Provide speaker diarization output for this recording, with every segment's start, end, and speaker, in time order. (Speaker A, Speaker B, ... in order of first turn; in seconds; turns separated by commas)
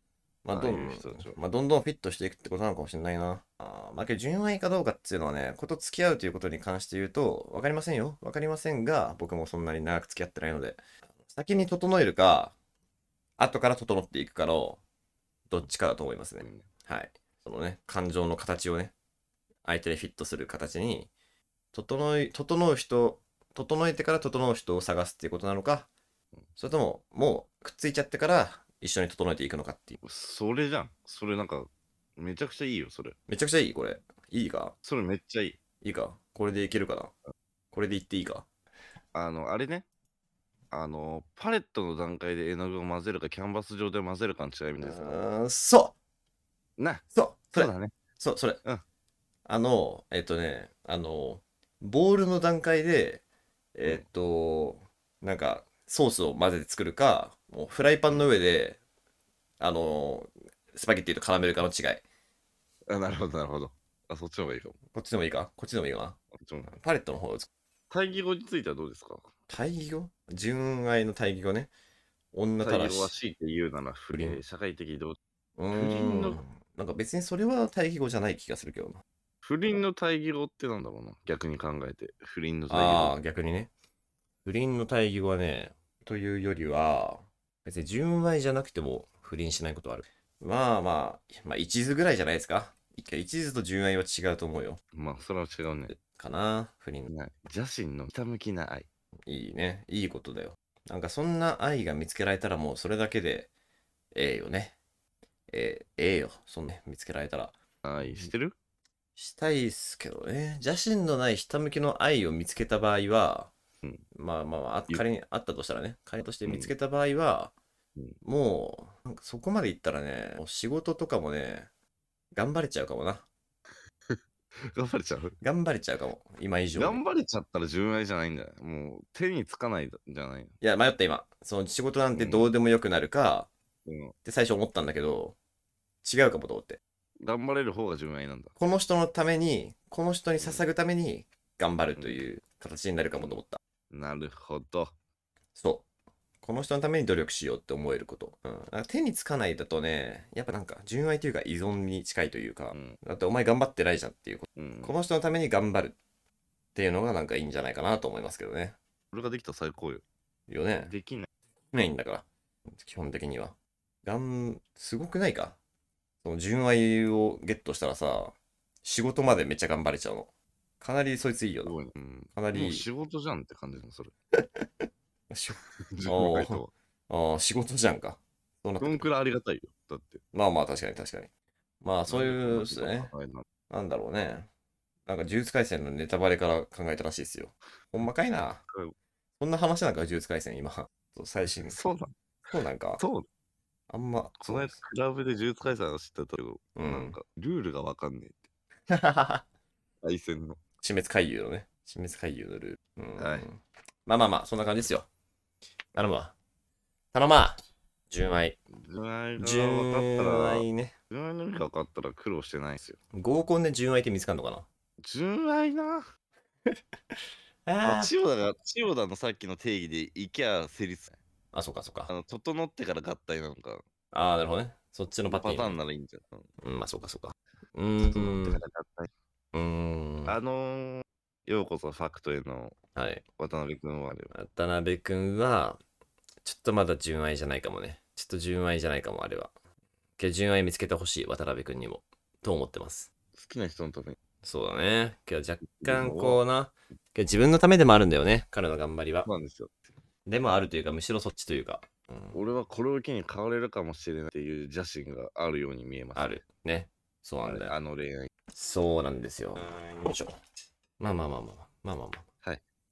Speaker A: 0.5-12.5, Speaker B: 0.5-1.4, Speaker A: 13.4-14.8, Speaker A: 15.5-18.9, Speaker B: 16.4-16.7, Speaker A: 19.6-21.1, Speaker A: 21.7-25.9, Speaker A: 26.6-30.0, Speaker B: 30.0-33.2, Speaker A: 33.3-34.7, Speaker B: 34.8-35.6, Speaker A: 35.8-37.1, Speaker A: 37.7-38.5, Speaker B: 39.1-39.9, Speaker B: 40.7-45.2, Speaker A: 44.8-46.0, Speaker B: 46.8-47.9, Speaker A: 47.1-48.6, Speaker A: 49.5-53.2, Speaker A: 53.8-58.8, Speaker A: 59.6-62.0, Speaker B: 62.9-64.8, Speaker A: 64.9-67.5, Speaker B: 66.3-66.7, Speaker B: 67.9-69.3, Speaker A: 69.5-71.7, Speaker A: 72.3-73.1, Speaker B: 72.6-75.2, Speaker A: 74.1-74.4, Speaker A: 75.6-79.0, Speaker B: 75.7-76.4, Speaker B: 79.4-83.2, Speaker A: 82.7-83.7, Speaker A: 84.5-94.8, Speaker B: 94.9-96.0, Speaker A: 96.0-97.1, Speaker B: 97.1-98.9, Speaker A: 99.3-103.5, Speaker A: 104.1-104.8, Speaker A: 105.5-107.5, Speaker B: 107.8-108.6, Speaker A: 109.2-113.5, Speaker A: 114.1-117.5, Speaker B: 116.5-116.7, Speaker A: 118.2-121.7, Speaker A: 122.3-123.3, Speaker B: 124.1-125.4, Speaker A: 125.4-127.0, Speaker B: 126.8-130.6, Speaker A: 130.6-133.5, Speaker B: 132.2-132.5, Speaker B: 133.9-134.1, Speaker A: 134.2-135.4, Speaker A: 136.0-136.8, Speaker B: 137.2-138.6, Speaker A: 138.6-143.6, Speaker B: 140.4-140.7, Speaker B: 143.9-144.9, Speaker A: 145.6-145.9, Speaker A: 146.4-156.0, Speaker B: 152.7-153.0, Speaker B: 154.6-154.9, Speaker A: 156.8-158.8, Speaker B: 159.1-160.0, Speaker A: 160.5-160.9, Speaker B: 160.8-161.3, Speaker A: 161.7-165.6, Speaker A: 166.2-170.3, Speaker A: 170.8-171.8, Speaker B: 171.6-174.1, Speaker A: 172.4-172.9, Speaker A: 174.6-179.1, Speaker B: 175.6-176.7, Speaker B: 178.8-180.2, Speaker A: 180.3-181.3, Speaker A: 181.8-183.1, Speaker B: 182.1-183.5, Speaker A: 183.7-184.5, Speaker A: 185.1-188.6, Speaker A: 189.4-191.8, Speaker B: 191.7-192.1, Speaker A: 192.5-193.0, Speaker B: 193.0-193.3, Speaker A: 193.9-194.8, Speaker B: 194.4-198.5, Speaker A: 196.8-197.2, Speaker A: 198.9-199.4, Speaker B: 200.0-200.6, Speaker A: 200.8-205.1, Speaker B: 203.2-203.5, Speaker A: 205.9-206.3, Speaker A: 207.1-207.6, Speaker A: 208.1-208.6, Speaker B: 208.7-213.0, Speaker A: 209.4-210.9, Speaker A: 213.1-214.7, Speaker B: 215.0-216.1, Speaker A: 217.7-218.1, Speaker B: 217.8-221.2, Speaker A: 221.5-222.1, Speaker B: 222.1-223.8, Speaker A: 224.1-225.8, Speaker B: 225.3-226.5, Speaker A: 226.6-228.6, Speaker B: 228.0-229.1, Speaker A: 229.5-230.4, Speaker B: 230.3-232.8, Speaker A: 232.9-233.2, Speaker B: 233.4-234.3, Speaker A: 234.3-235.8, Speaker A: 236.4-239.5, Speaker A: 240.2-243.1, Speaker B: 243.3-244.2, Speaker A: 244.4-249.3, Speaker B: 245.7-246.4, Speaker B: 249.2-249.7, Speaker A: 250.3-252.4, Speaker B: 252.3-256.4, Speaker A: 256.2-257.7, Speaker B: 257.5-258.3, Speaker A: 258.5-260.4, Speaker A: 261.0-262.2